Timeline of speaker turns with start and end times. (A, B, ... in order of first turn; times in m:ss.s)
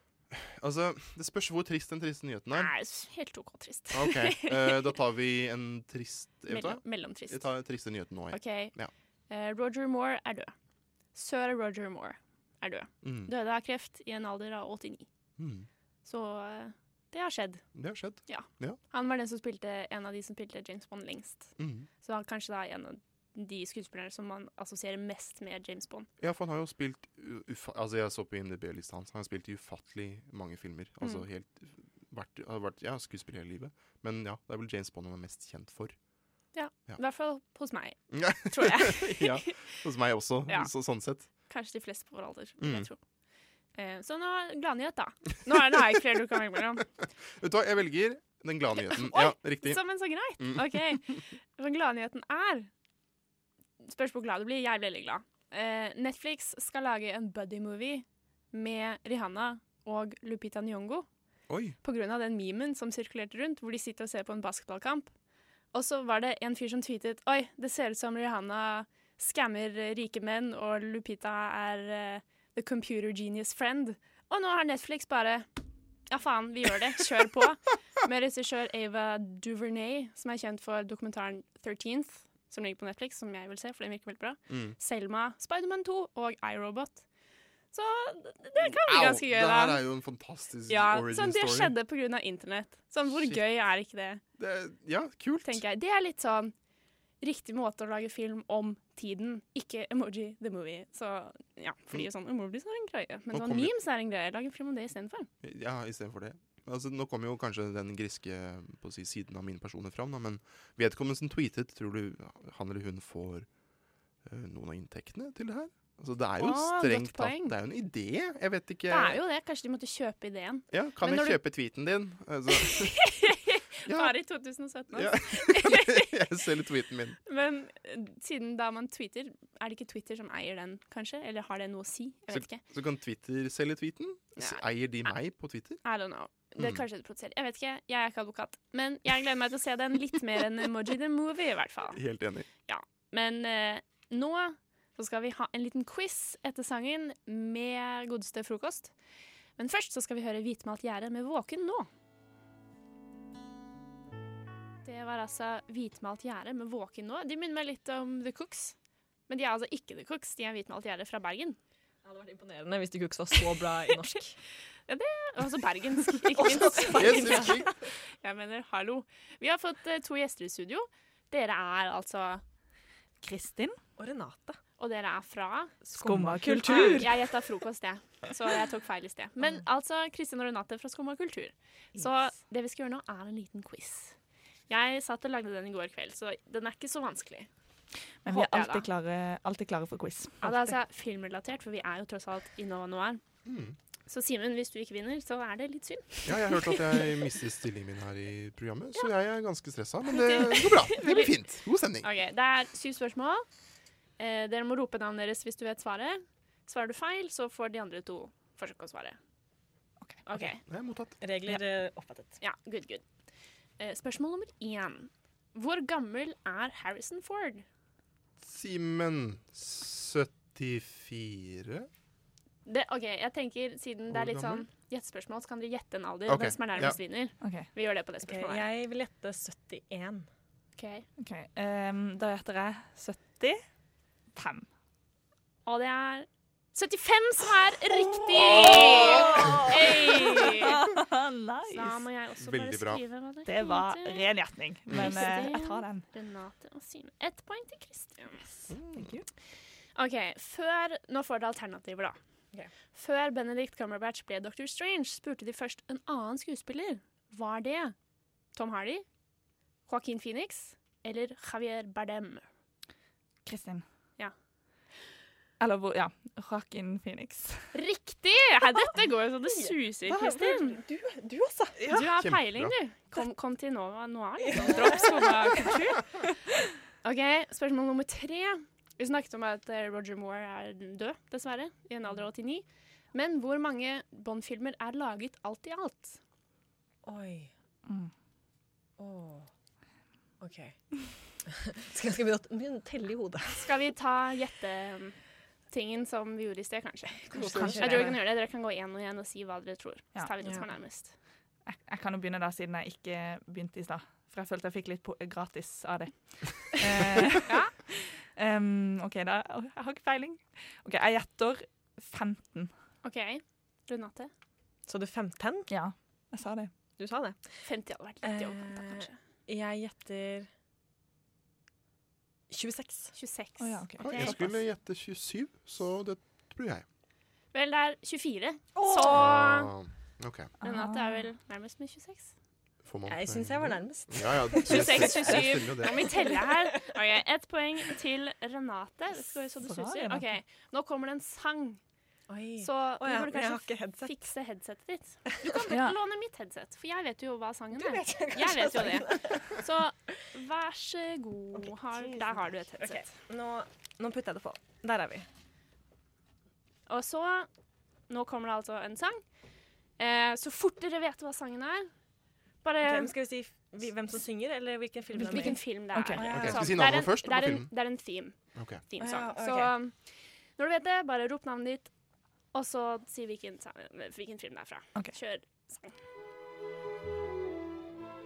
0:00.3-0:02.7 A
0:02.5-0:04.8 B
0:03.9-0:08.9 A
0:06.5-0:07.5 B
0:08.3-0:08.8 B
0:09.3-0:10.5 B
0:11.2-0:15.1 B
0:13.0-0:13.3 A
0:15.4-0:15.7 A
0:16.0-0:17.6 B
0:17.7-0:18.8 A
0:18.3-0:26.1 B
0:21.6-0:21.9 A
0:26.2-0:36.0 A
0:36.6-0:39.7 B
0:38.1-0:41.3 A
0:41.5-0:43.0 B
0:42.6-0:42.9 A
0:43.8-0:46.9 B
0:47.3-0:49.8 A
0:48.8-0:52.7 B
0:50.4-0:51.2 A
0:53.8-1:01.1 B
1:01.5-1:01.8 A
1:01.8-1:05.1 B
1:05.7-1:15.5 B
1:16.1-1:27.0 B
1:24.5-1:24.8 A
1:27.7-1:29.8 B
1:28.6-1:31.8 A
1:30.7-1:34.2 B
1:33.1-1:33.4 A
1:34.4-1:35.6 A
1:35.4-1:36.5 B
1:37.2-1:45.3 B
1:43.3-1:43.7 A
1:45.4-1:53.5 A
1:54.2-1:59.2 A
1:56.4-1:57.6 B
1:58.9-2:01.4 B
2:00.7-2:03.0 A
2:02.6-2:06.1 B
2:03.9-2:04.2 A
2:04.9-2:07.2 A
2:07.3-2:12.6 B
2:12.3-2:15.8 A
2:14.4-2:15.1 B
2:15.8-2:22.0 B
2:16.6-2:16.8 A
2:21.9-2:22.5 A
2:22.7-2:28.9 B
2:29.6-2:31.9 B
2:34.8-2:38.8 B
2:39.3-2:41.6 B
2:42.0-2:44.4 C
2:44.9-2:52.4 B
2:46.3-2:47.8 C
2:46.9-2:47.7 A
2:53.2-2:53.8 D
2:54.0-2:54.6 C
2:54.8-2:55.8 B
2:55.8-2:57.1 C
2:56.0-2:57.1 D
2:56.6-3:04.2 B
3:04.7-3:07.5 B
3:08.2-3:10.7 D
3:08.3-3:08.9 B
3:10.4-3:13.2 B
3:13.4-3:13.8 A
3:14.1-3:17.1 B
3:16.2-3:22.1 A
3:20.1-3:21.3 B
3:22.0-3:23.5 B
3:24.2-3:29.2 B
3:30.3-3:30.6 B
3:30.7-3:31.2 A
3:31.2-3:32.4 C
3:32.4-3:33.0 B
3:33.8-3:37.6 B
3:38.4-3:41.9 A
3:42.7-3:48.7 B
3:44.1-3:44.7 A
3:46.3-3:47.0 A
3:47.4-3:47.7 D
3:48.2-3:50.3 C
3:50.8-3:51.1 B
3:51.2-3:53.6 D
3:54.4-3:54.7 D
3:55.7-4:00.8 B
3:58.4-3:59.7 C
4:00.5-4:02.0 D
4:01.7-4:04.2 B
4:02.4-4:03.0 A
4:03.5-4:06.1 D
4:04.9-4:08.5 B
4:08.7-4:09.1 A
4:09.0-4:09.2 D
4:10.0-4:12.2 B
4:12.9-4:18.0 B
4:18.5-4:19.0 B
4:19.9-4:22.5 B
4:23.5-4:23.8 D
4:25.6-4:27.7 D
4:27.7-4:30.8 B
4:29.6-4:31.8 C
4:31.9-4:36.2 B
4:32.2-4:32.8 A
4:34.4-4:35.7 C
4:37.0-4:46.2 B
4:47.1-4:47.5 C
4:47.9-4:48.1 D
4:49.0-4:49.5 C
4:50.4-4:50.8 C
4:51.5-4:53.7 C
4:53.6-4:55.2 B
4:55.7-5:01.1 B
4:57.3-4:58.1 A
4:57.4-4:58.2 C
5:00.4-5:00.7 C
5:01.7-5:12.7 D
5:07.4-5:07.7 B
5:13.0-5:14.3 B
5:14.9-5:15.7 C
5:15.7-5:16.7 D
5:17.0-5:17.4 C
5:17.6-5:19.2 B
5:18.2-5:20.5 C
5:22.5-5:23.1 C
5:23.1-5:24.4 B
5:23.6-5:24.6 D
5:24.0-5:26.8 A
5:27.5-5:29.7 B
5:28.8-5:29.2 C
5:29.1-5:30.5 A
5:30.6-5:31.3 D
5:30.6-5:32.3 B
5:32.8-5:36.1 A
5:33.1-5:36.9 C
5:34.6-5:41.8 B
5:39.6-5:40.4 D
5:42.3-5:44.1 C
5:42.6-5:53.1 B
5:47.7-5:49.6 C
5:51.5-5:55.3 C
5:56.9-5:57.5 B
5:58.1-5:59.2 B
6:00.0-6:01.9 B
6:02.6-6:03.1 B
6:02.8-6:06.8 C
6:05.2-6:08.4 B
6:05.9-6:06.2 D
6:06.3-6:07.7 A
6:08.5-6:08.8 A
6:08.9-6:11.9 B
6:09.0-6:09.8 C
6:12.5-6:15.9 B